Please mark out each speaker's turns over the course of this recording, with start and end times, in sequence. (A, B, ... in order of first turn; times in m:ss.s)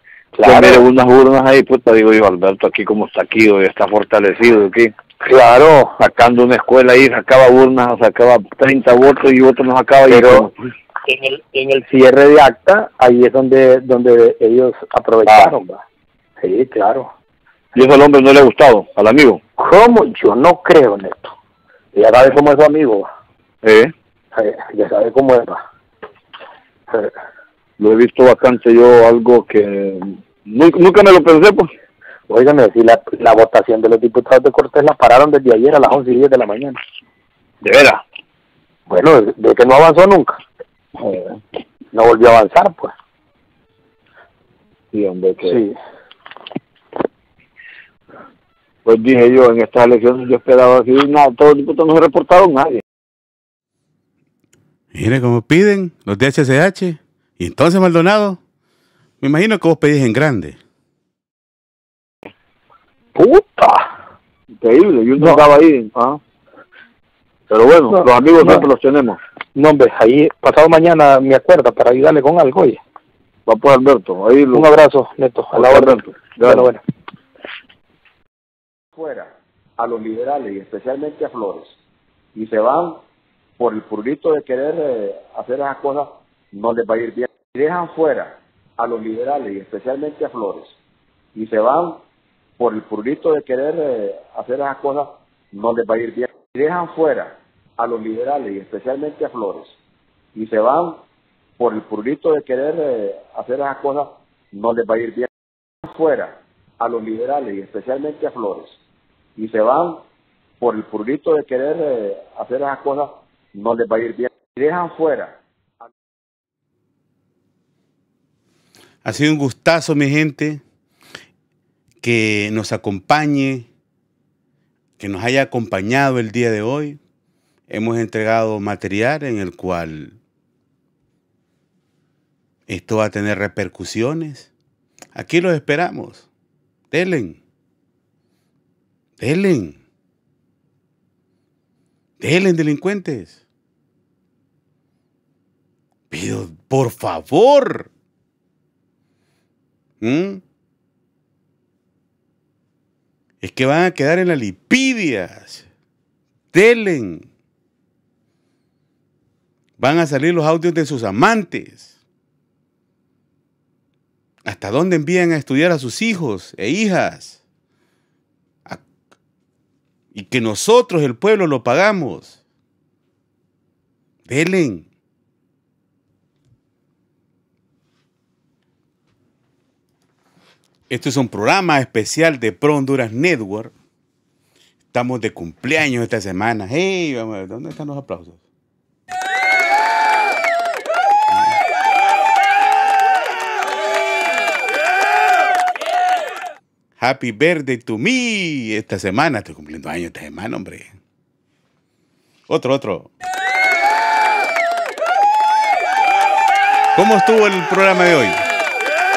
0:00.4-0:10.5 A
0:11.1-0:11.8 A
0:11.8-0:15.8 B
0:15.3-0:15.5 A
0:16.4-0:17.1 B
0:17.8-0:19.4 A
0:19.6-0:21.3 B
0:22.0-0:23.1 B
0:23.6-0:23.9 A
0:24.3-0:25.6 B
0:27.8-0:31.7 A
0:32.3-0:36.8 B
0:38.9-0:40.4 B
0:41.9-0:42.9 B
0:45.0-0:45.6 A
0:48.9-0:52.8 A
0:54.9-0:58.4 C
0:59.2-1:00.6 C
1:03.2-1:03.9 B
1:04.6-1:05.9 A
1:07.5-1:08.2 A
1:08.0-1:08.7 B
1:09.6-1:12.8 B
1:13.5-1:14.6 A
1:14.5-1:16.8 B
1:15.5-1:16.6 A
1:19.0-1:21.7 D
1:22.4-1:23.0 D
1:23.6-1:30.7 D
1:31.4-1:32.0 D
1:32.6-1:39.7 D
1:40.4-1:41.0 D
1:41.6-1:45.3 D
1:45.8-1:48.7 D
1:49.4-1:50.0 D
1:50.6-1:55.4 D
1:59.0-2:00.6 C
2:02.0-2:03.7 C
2:05.0-2:07.0 C
2:07.7-2:10.2 C
2:12.7-2:14.5 C
2:15.2-2:16.3 C
2:16.9-2:17.4 C
2:19.2-2:19.8 C
2:22.2-2:23.4 C
2:26.1-2:27.9 C
2:30.0-2:30.4 C
2:33.4-2:35.7 C
2:36.5-2:37.3 C
2:39.8-2:41.9 C
2:44.5-2:47.4 C
2:50.1-2:52.4 C
2:54.3-2:54.9 C
3:00.9-3:03.7 C
3:04.9-3:08.4 C
3:11.3-3:11.6 C
3:17.0-3:20.9 C
3:22.5-3:23.1 C
3:27.0-3:28.4 C